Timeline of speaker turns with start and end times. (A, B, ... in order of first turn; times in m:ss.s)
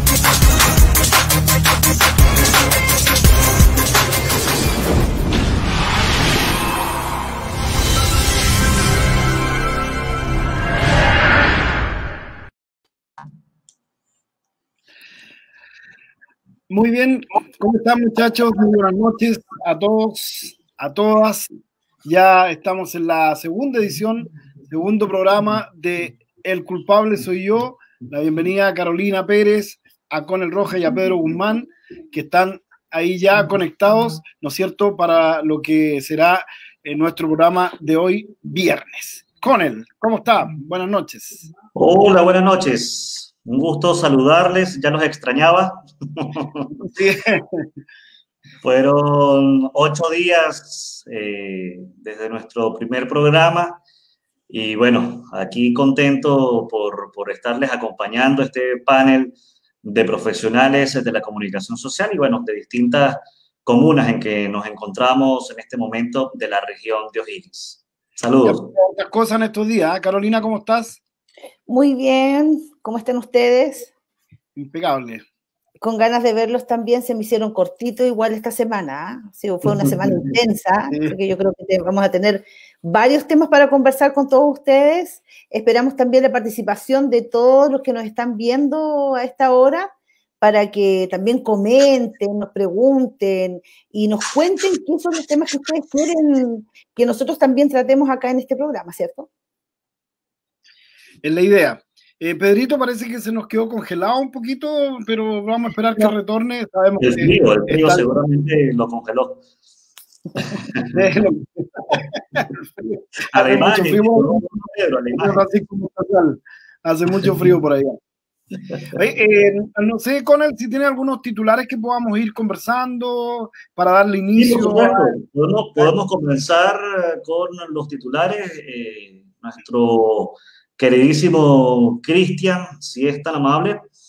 0:16.7-0:21.5 A
0:22.0-0:41.4 A
0:41.7-0:46.7 B
0:46.8-0:47.6 A
0:48.6-0:53.8 B
0:54.5-1:08.7 B
1:08.4-1:11.0 A
1:11.7-1:13.9 C
1:14.6-1:15.2 A
1:15.8-1:39.3 C
1:41.2-1:48.0 A
1:47.0-1:49.4 B
1:50.4-1:50.9 B
1:50.9-1:54.4 A
1:53.3-1:55.4 B
1:55.2-1:58.0 A
1:58.9-2:05.2 A
2:04.4-2:13.9 B